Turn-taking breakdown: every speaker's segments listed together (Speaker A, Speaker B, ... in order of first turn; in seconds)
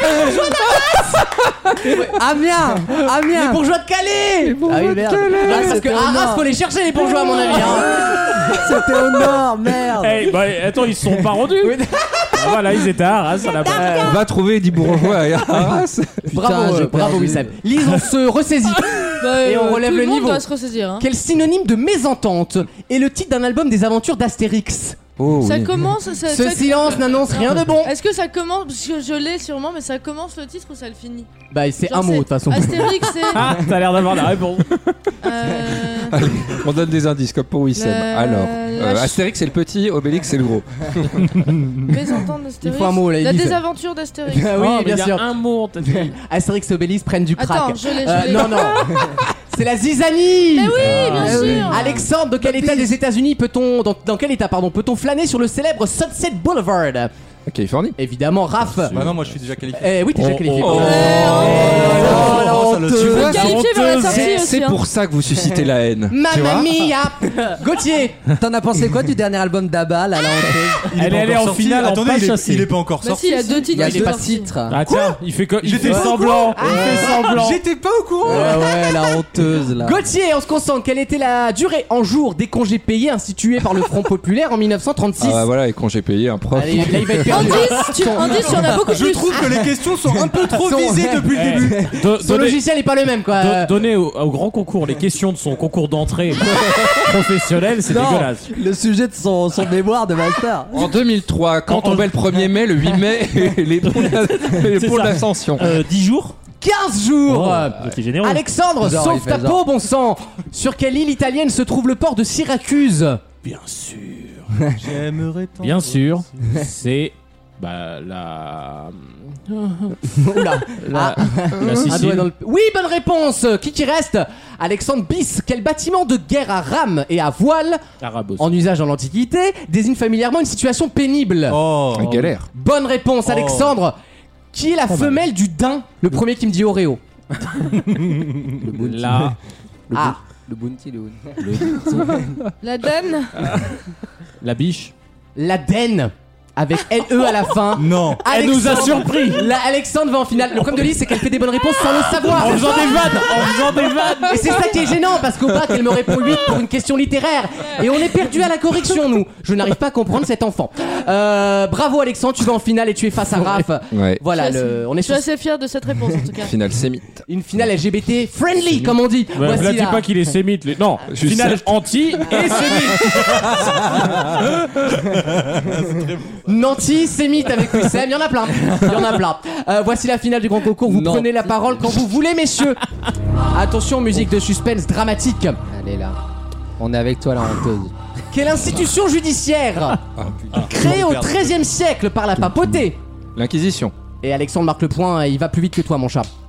Speaker A: 1.8-2.2, 2.9-8.6, 11.6-12.5, 13.7-14.1, 16.3-20.4, 21.0-25.0, 26.2-27.9, 31.5-33.2, 42.6-43.6, 44.3-45.2, 45.9-57.1, 58.0-59.0, 59.7-62.4, 66.1-68.2, 73.6-74.2, 76.0-77.2, 78.2-79.2, 79.8-85.4, 86.5-88.7, 90.1-93.7, 106.6-113.2, 120.0-127.8, 128.4-131.6, 132.5-133.9, 134.5-137.0, 145.3-153.2, 154.3-165.2, 167.3-170.0, 176.4-182.8, 183.5-185.6, 188.3-190.0, 190.5-193.0, 194.2-196.3
Speaker B: 2.0-3.6, 4.6-6.5, 7.4-10.3, 16.2-17.6, 50.8-52.9, 61.4-63.3, 68.4-70.9, 73.7-74.8, 78.2-80.0, 97.8-101.0, 108.8-109.6, 138.6-139.3, 139.9-142.4, 180.8-181.9, 185.7-186.2, 186.8-187.9
Speaker C: 10.0-11.8, 12.3-14.2, 33.3-34.8, 44.5-46.1, 51.0-51.6, 60.2-62.6, 63.3-64.2, 71.0-72.7, 74.7-77.6, 91.3-92.6, 93.4-98.5, 113.4-114.5, 115.6-119.9, 120.7-122.3, 128.0-128.5, 134.9-135.2, 138.8-139.4, 141.4-142.2, 143.5-143.7, 144.4-144.9, 148.2-149.5, 152.2-154.8, 168.8-173.5
Speaker D: 14.0-16.2, 25.2-25.9, 36.1-41.6, 51.0-51.5, 57.5-58.0, 58.9-59.2, 60.5-62.3, 62.9-66.9, 85.2-87.7, 96.5-97.0, 100.7-105.8, 121.5-122.0, 131.9-132.5, 163.9-164.2, 166.4-167.2, 171.1-171.8, 172.3-172.7, 193.3-193.9
Speaker E: 19.1-21.1, 25.4-31.3, 31.8-33.6, 35.2-36.2, 37.7-39.2, 41.9-44.6, 47.4-49.0, 50.5-52.0, 60.8-61.6, 63.1-64.8, 73.0-74.5, 87.2-89.6, 142.6-143.5, 164.3-166.5
Speaker F: 58.9-60.1, 61.3-63.6, 70.9-73.8, 75.0-78.7, 88.3-91.9, 114.8-116.5, 131.5-132.2, 133.2-133.8, 137.9-138.3, 147.7-148.2, 173.2-176.5, 190.2-191.7
Speaker G: 101.7-102.0, 103.9-106.3, 107.2-108.4